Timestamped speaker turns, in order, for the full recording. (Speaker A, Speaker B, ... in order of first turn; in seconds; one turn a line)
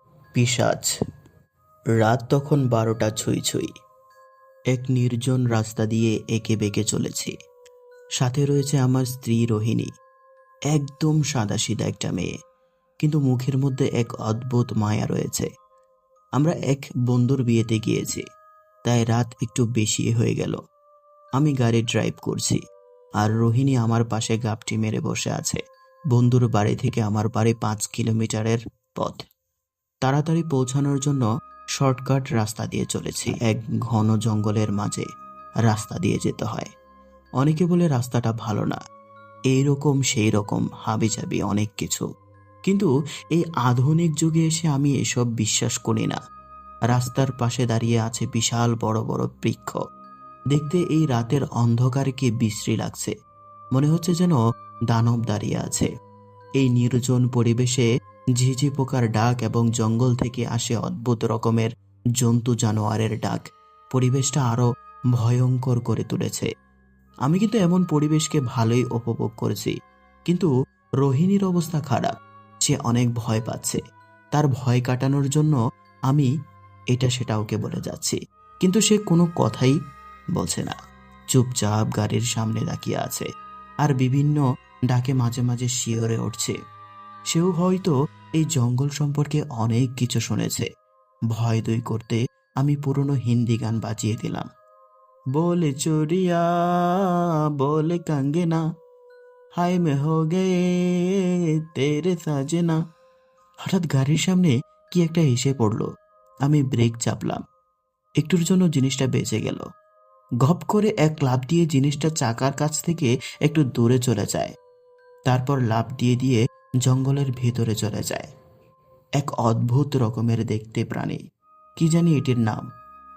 Speaker A: 0.3-0.9
Speaker A: 2.0-3.7
Speaker A: 4.7-7.3
Speaker A: 8.2-9.9
Speaker A: 10.7-12.3
Speaker A: 13.0-15.5
Speaker A: 16.4-18.2
Speaker A: 18.9-20.6
Speaker A: 21.4-22.6
Speaker A: 23.2-25.6
Speaker A: 26.1-29.2
Speaker A: 30.0-31.3
Speaker A: 31.8-35.1
Speaker A: 35.7-36.7
Speaker A: 37.4-38.8
Speaker A: 39.5-42.1
Speaker A: 42.7-46.2
Speaker A: 46.9-49.8
Speaker A: 50.5-53.1
Speaker A: 53.8-54.4
Speaker A: 54.9-55.9
Speaker A: 56.6-66.5
Speaker A: 67.3-69.8
Speaker A: 71.0-73.8
Speaker A: 74.3-75.6
Speaker A: 76.9-79.8
Speaker A: 80.4-80.8
Speaker A: 81.3-83.3
Speaker A: 83.8-86.6
Speaker A: 87.3-90.7
Speaker A: 91.3-94.5
Speaker A: 95.4-98.6
Speaker A: 99.6-102.8
Speaker A: 103.7-105.9
Speaker A: 106.5-107.4
Speaker A: 108.2-109.6
Speaker A: 110.4-114.5
Speaker A: 115.3-118.3
Speaker A: 119.2-121.2
Speaker A: 121.8-122.7